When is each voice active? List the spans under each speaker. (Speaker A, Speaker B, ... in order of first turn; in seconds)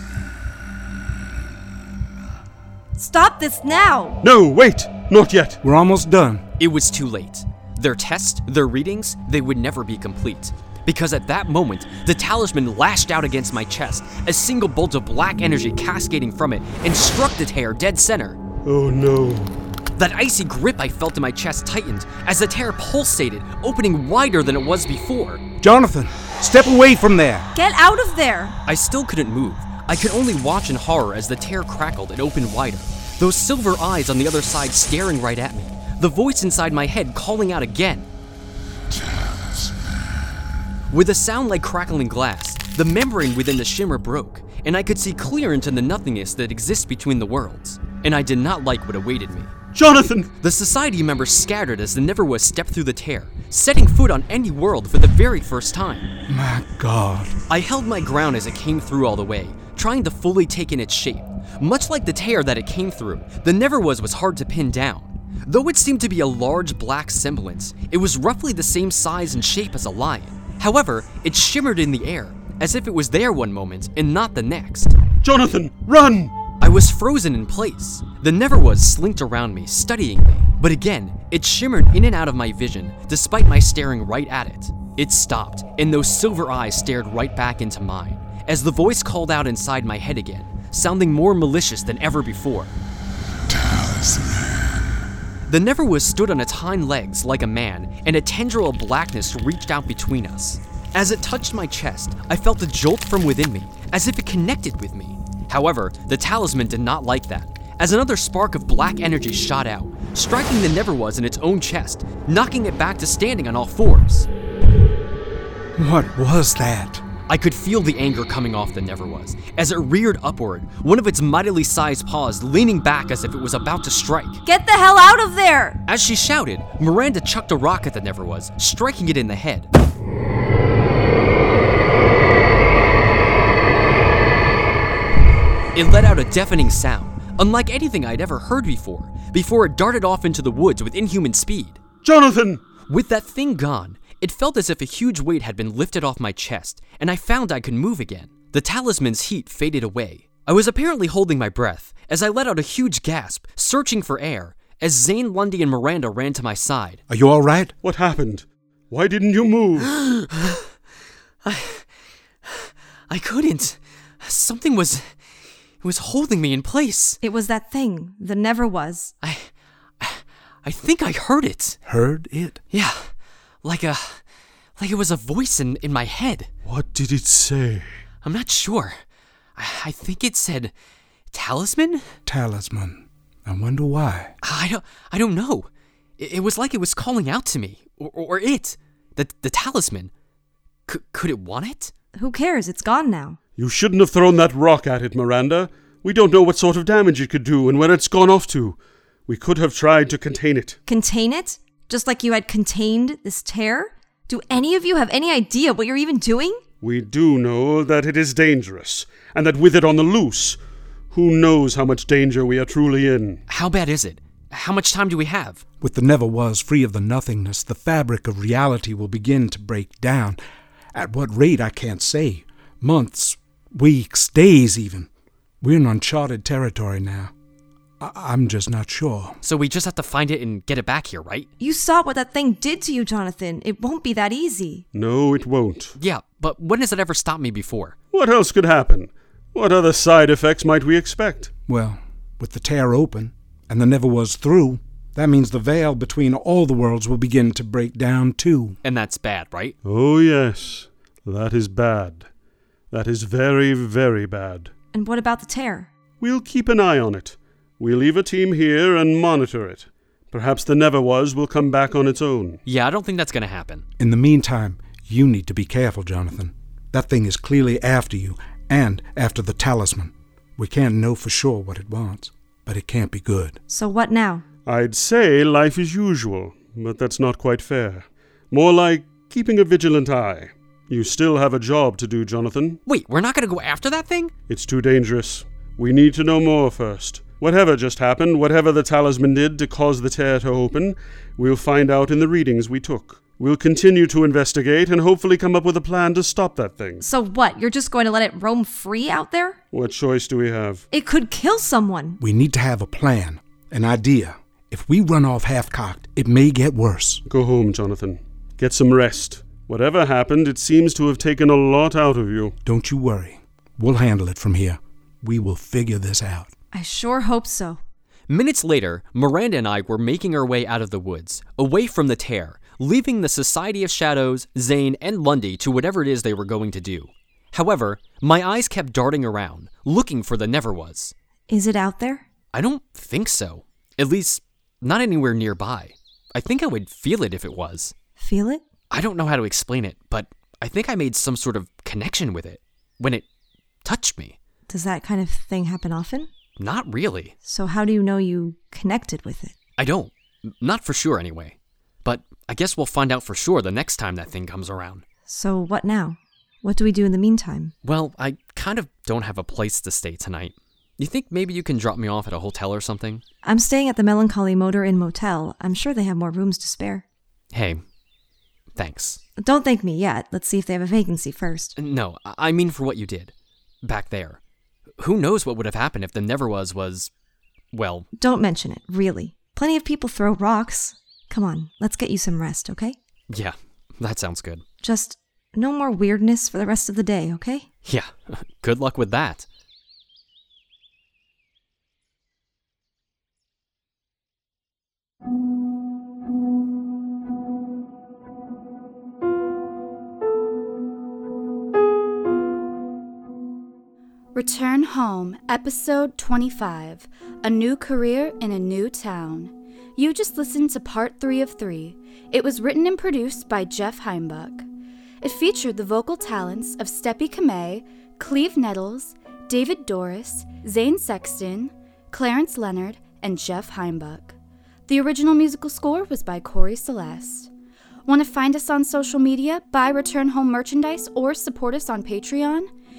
Speaker A: 3.0-4.2, 27.5-28.6, 124.4-125.8, 167.2-169.1, 192.2-193.4, 200.9-206.6, 231.6-234.8, 254.9-255.9, 273.7-274.4, 297.0-299.6, 300.9-302.2, 316.7-317.8, 331.5-332.2, 338.2-338.6, 344.7-346.3, 347.4-349.6, 355.3-357.8, 363.4-367.0, 369.4-371.8, 378.2-383.0, 384.8-387.7
Speaker B: 4.2-5.6, 18.6-19.6, 49.7-50.3, 75.2-76.3, 142.0-142.7, 157.8-159.9, 176.7-177.9, 193.6-200.8, 206.8-210.6, 211.1-213.4, 234.9-236.0, 238.1-241.5, 249.8-252.3, 252.9-254.7, 256.2-262.6, 274.7-282.8, 284.5-297.1, 299.7-300.8, 307.2-312.6
Speaker C: 5.6-6.5, 25.6-27.5, 56.3-57.4, 115.8-117.0, 157.1-157.8, 171.8-172.6, 182.3-184.3, 215.8-220.4, 220.9-225.1, 225.6-227.3, 228.0-229.4, 241.7-248.8, 264.0-273.6, 302.2-307.2, 312.6-316.5
Speaker D: 6.6-18.4, 19.9-25.4, 28.7-38.1, 40.9-49.5, 50.4-56.1, 57.5-75.0, 76.6-92.8, 95.5-114.3, 117.3-124.4, 125.9-129.7, 135.8-141.8, 142.9-157.0, 159.8-160.7, 161.4-161.9, 162.5-165.1, 165.8-167.2, 169.2-171.8, 172.7-173.1, 173.6-174.2, 174.8-176.5, 178.2-179.0, 179.6-180.7, 181.3-182.1, 184.4-185.7, 186.2-190.1, 190.9-191.9, 213.5-215.6, 229.4-231.5, 236.0-238.0, 248.8-249.8, 262.7-263.9, 282.9-284.3, 318.3-331.1, 332.5-337.9, 338.9-343.2, 343.8-344.4, 346.6-347.4, 349.8-355.0, 357.8-363.2, 367.5-367.8, 368.8-369.2, 371.8-374.4, 375.0-377.1, 377.7-378.1, 383.3-384.6, 387.9-389.5
Speaker E: 404.3-414.7, 415.2-424.4, 424.9-427.5, 428.1-432.7